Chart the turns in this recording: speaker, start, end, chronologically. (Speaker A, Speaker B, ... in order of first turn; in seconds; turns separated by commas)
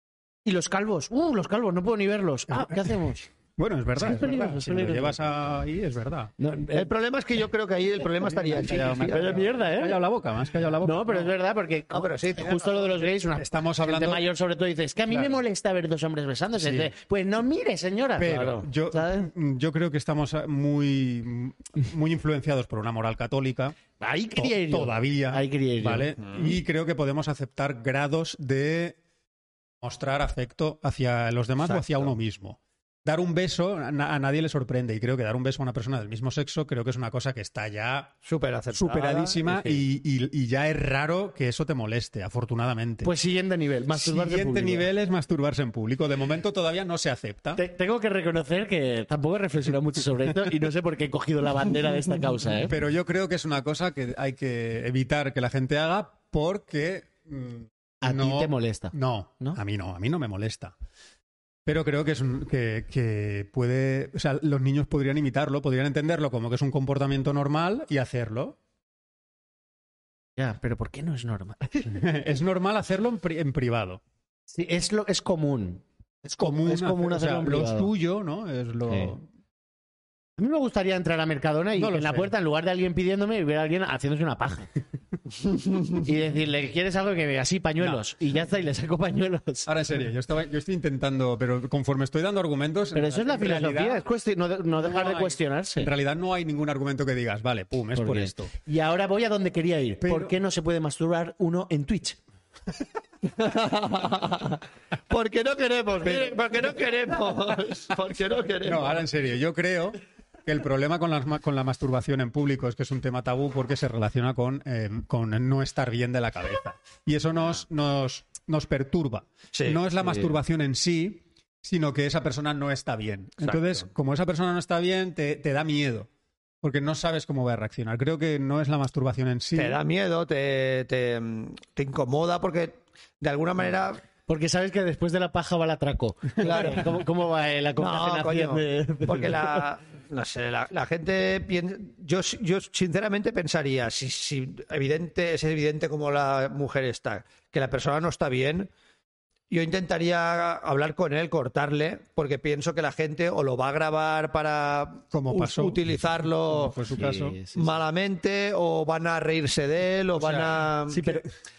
Speaker A: 0.5-3.3, Speaker B: 2.5-2.9, Speaker B: 3.6-6.3, Speaker A: 4.0-5.2, Speaker A: 6.4-6.9, Speaker C: 6.7-9.5, Speaker B: 8.4-11.3, Speaker A: 9.1-10.0, Speaker A: 10.8-19.3, Speaker C: 11.9-13.1, Speaker B: 13.4-14.2, Speaker B: 16.6-16.9, Speaker B: 18.2-23.8, Speaker A: 24.0-26.1, Speaker B: 24.4-29.0, Speaker B: 29.8-38.1, Speaker C: 31.6-32.1, Speaker C: 38.2-39.8, Speaker B: 38.7-43.1, Speaker A: 43.0-44.9, Speaker B: 44.0-47.6, Speaker A: 47.6-52.8, Speaker B: 52.7-60.7, Speaker A: 58.0-59.6, Speaker B: 61.7-68.6, Speaker A: 70.4-72.0, Speaker B: 71.9-74.0, Speaker A: 74.5-77.9, Speaker B: 76.4-79.2, Speaker A: 78.9-79.1, Speaker A: 80.4-84.7, Speaker B: 81.8-82.3, Speaker A: 85.9-89.7, Speaker B: 89.7-94.0, Speaker A: 93.0-95.9, Speaker B: 94.8-98.5, Speaker A: 98.0-102.2, Speaker B: 100.0-100.3, Speaker C: 103.2-109.0, Speaker B: 108.6-126.1, Speaker C: 119.5-119.8, Speaker C: 123.4-123.9, Speaker B: 126.6-129.8, Speaker C: 129.6-134.0, Speaker A: 134.3-139.6, Speaker C: 136.4-137.0, Speaker C: 137.8-148.7, Speaker C: 149.5-156.8, Speaker B: 155.1-157.4, Speaker A: 156.9-157.8, Speaker C: 157.5-161.2, Speaker B: 160.2-160.7, Speaker A: 160.9-161.2